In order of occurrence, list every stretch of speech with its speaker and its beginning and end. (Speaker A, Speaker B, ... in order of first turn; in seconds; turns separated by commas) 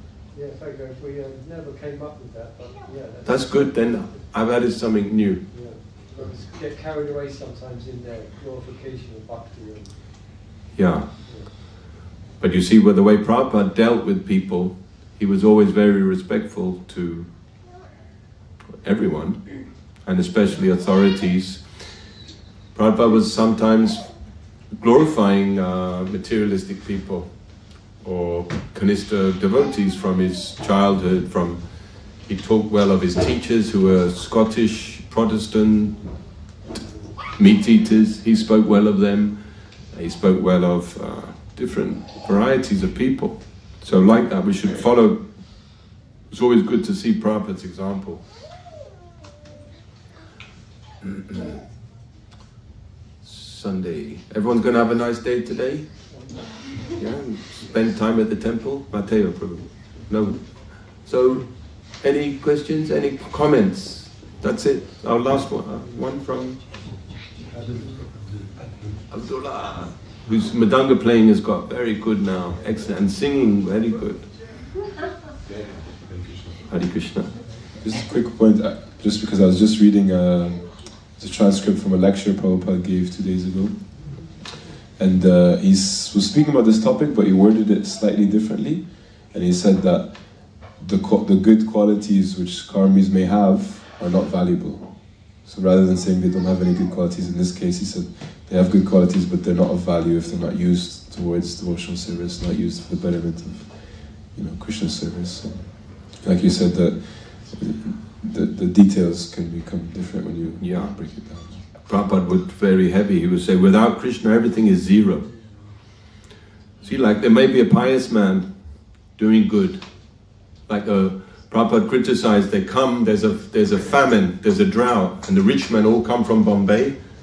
Speaker A: 0.3-4.3, Speaker B: 3.2-5.4, Speaker A: 5.5-10.1, Speaker B: 10.8-11.1, Speaker B: 12.4-17.3, Speaker B: 18.8-19.4, Speaker B: 20.0-21.6, Speaker B: 22.7-24.1, Speaker B: 24.8-27.3, Speaker B: 28.0-31.6, Speaker B: 32.2-36.0, Speaker B: 37.4-39.4, Speaker B: 39.9-45.2, Speaker B: 46.3-48.2, Speaker B: 51.0-51.5, Speaker B: 53.2-55.9, Speaker B: 57.0-66.6, Speaker A: 67.5-68.1, Speaker B: 69.1-74.3, Speaker B: 76.7-77.3, Speaker C: 77.8-84.2, Speaker C: 85.0-111.6, Speaker B: 110.6-110.9, Speaker B: 111.8-115.3, Speaker B: 116.8-118.5, Speaker B: 119.2-119.8, Speaker B: 120.7-127.0